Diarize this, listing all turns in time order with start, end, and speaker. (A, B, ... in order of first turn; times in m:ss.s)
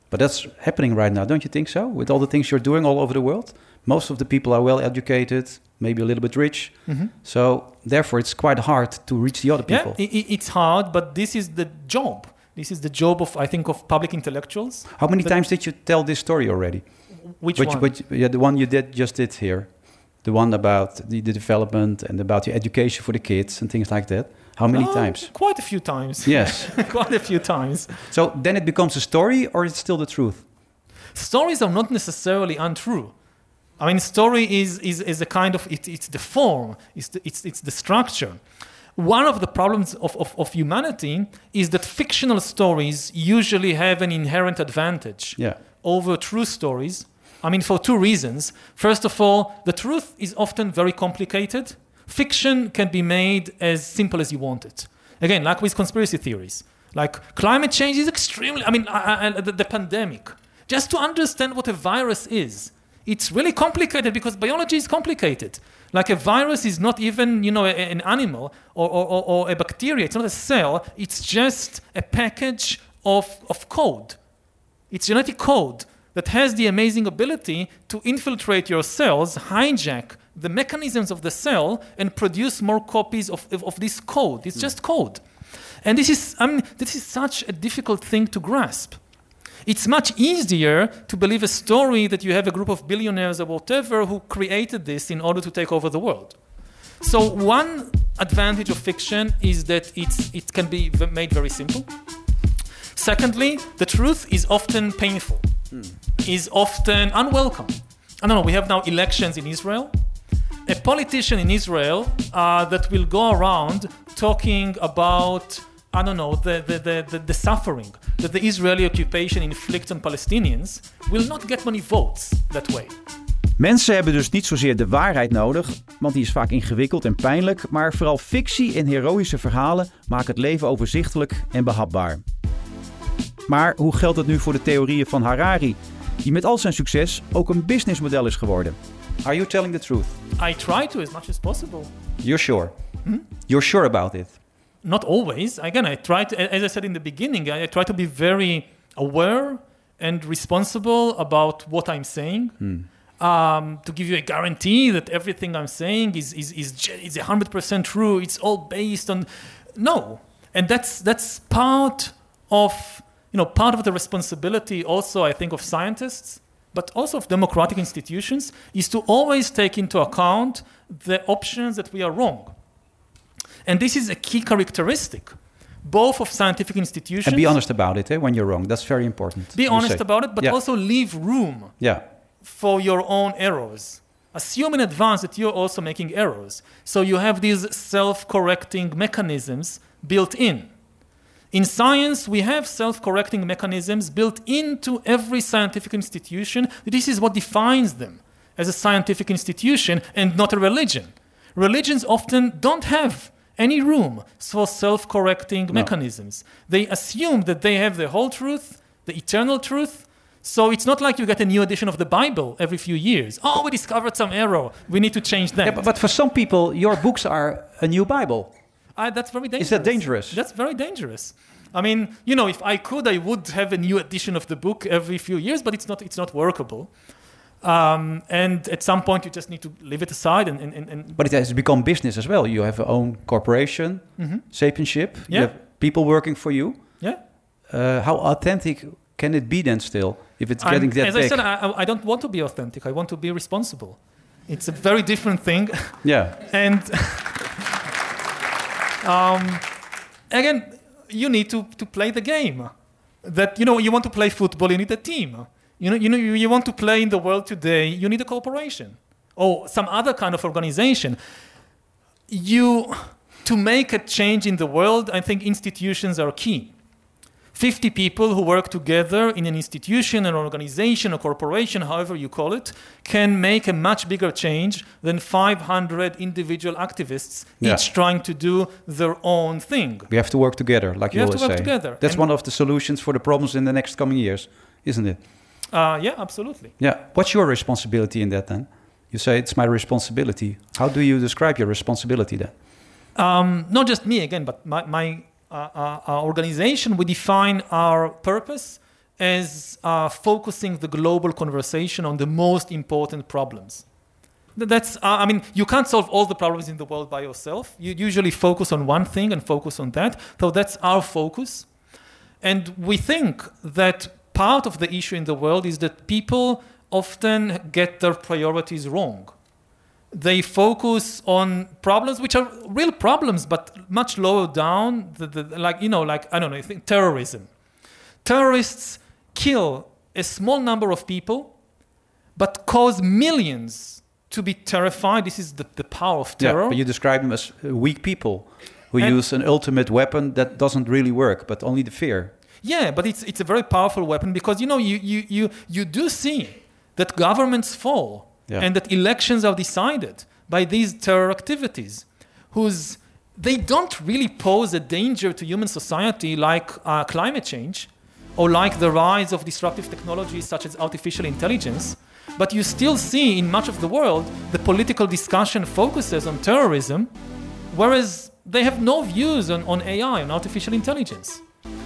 0:00.1-0:10.0 A
0:09.7-0:15.4 B
0:15.0-0:25.5 A
0:17.2-0:17.9 B
0:24.7-0:28.0 B
0:26.2-0:26.9 A
0:28.1-0:30.4 A
0:31.1-0:33.1 B
0:33.8-0:38.4 B
0:39.0-1:14.2 B
1:14.9-1:25.2 B
1:25.8-1:29.0 B
1:29.7-1:36.4 B
1:37.0-1:41.9 B
1:43.0-1:45.5 B
1:46.2-1:49.9 B
1:50.7-2:02.9 B
2:03.6-2:12.2 A
2:13.5-2:20.2 A
2:20.4-2:21.9 B
2:22.2-2:22.8 A
2:23.3-2:24.4 A
2:24.8-2:32.6 B
2:32.6-2:32.9 A
2:33.2-2:52.5 B
2:53.7-2:57.5 B
2:57.2-3:00.6 A
2:59.6-3:01.7 B
3:02.4-3:10.7 B
3:11.5-3:35.8 B
3:35.6-3:38.5 A
3:39.0-3:46.9 B
3:39.6-3:40.4 A
3:47.6-3:51.2 B
3:51.2-3:57.1 A
3:54.2-3:54.4 B
3:55.3-3:55.5 B
3:57.7-4:01.4 A
4:00.6-4:07.4 B
4:06.0-4:06.4 A
4:09.0-4:09.7 B
4:10.3-4:21.2 B
4:22.3-4:26.7 B
4:27.5-4:40.1 B
4:40.1-4:45.2 A
4:41.1-4:42.3 B
4:45.7-4:46.7 B
4:46.8-4:52.5 A
4:53.2-5:03.8 B
5:04.6-5:11.7 B
5:12.4-5:19.3 B
5:20.1-5:27.5 B
5:28.2-5:31.5 B
5:32.4-5:36.8 B
5:36.4-5:42.3 A
5:42.6-6:07.1 B
6:07.7-6:11.4 B